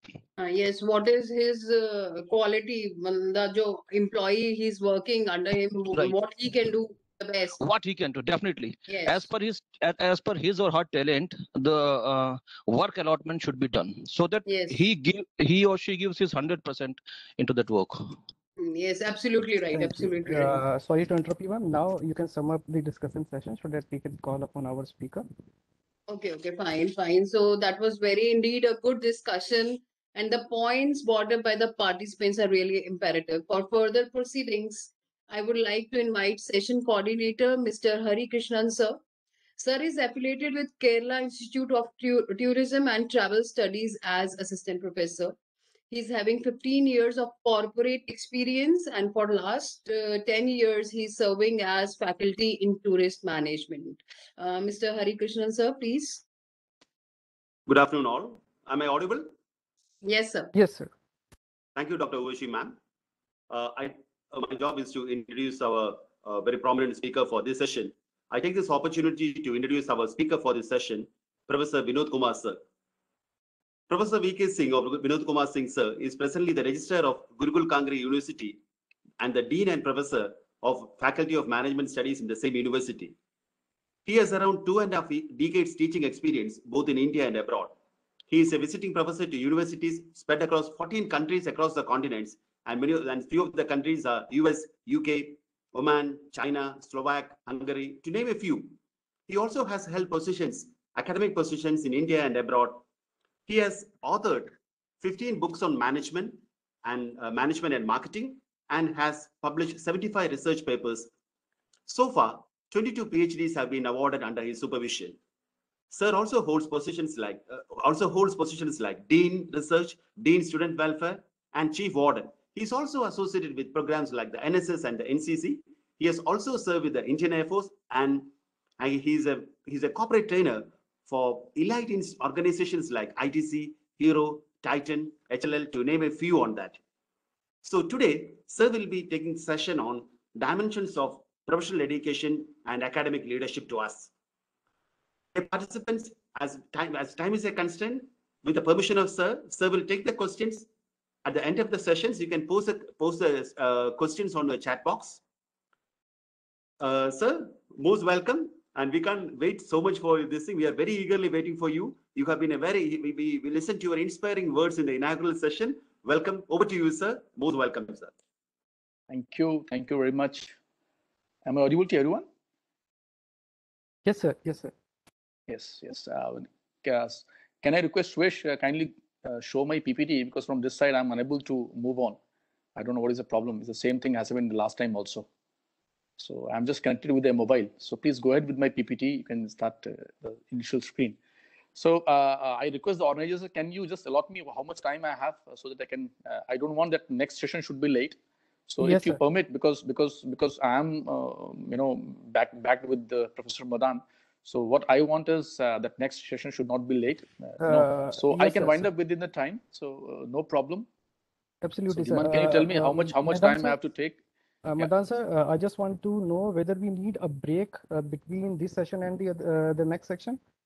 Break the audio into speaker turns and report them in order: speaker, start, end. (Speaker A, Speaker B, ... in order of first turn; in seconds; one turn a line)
Speaker A: 0.4-7.6
Speaker B: 5.9-6.2
Speaker B: 7.5-18.2
Speaker A: 8.9-9.3
Speaker A: 14.4-14.7
Speaker A: 18.6-20.6
Speaker C: 19.7-25.2
Speaker A: 26.1-39.0
Speaker A: 39.6-45.3
Speaker A: 45.9-56.2
Speaker D: 57.7-59.3
Speaker A: 60.0-60.5
Speaker C: 60.5-60.9
Speaker D: 61.8-62.8
Speaker D: 63.5-72.6
Speaker D: 73.9-78.6
Speaker D: 79.2-83.1
Speaker D: 84.0-87.7
Speaker D: 88.3-98.8
Speaker D: 99.3-102.8
Speaker D: 103.5-111.1
Speaker D: 111.9-115.2
Speaker D: 115.9-136.8
Speaker D: 137.6-144.1
Speaker D: 145.3-150.7
Speaker D: 151.2-155.2
Speaker D: 156.8-168.1
Speaker E: 169.1-170.5
Speaker E: 171.4-172.3
Speaker C: 174.1-174.7
Speaker E: 175.5-182.2
Speaker E: 182.8-185.3
Speaker E: 186.2-191.2
Speaker E: 191.7-198.2
Speaker E: 198.7-210.9
Speaker C: 198.8-199.2
Speaker C: 207.6-208.9
Speaker C: 211.6-213.8
Speaker E: 211.9-214.2
Speaker C: 214.6-220.4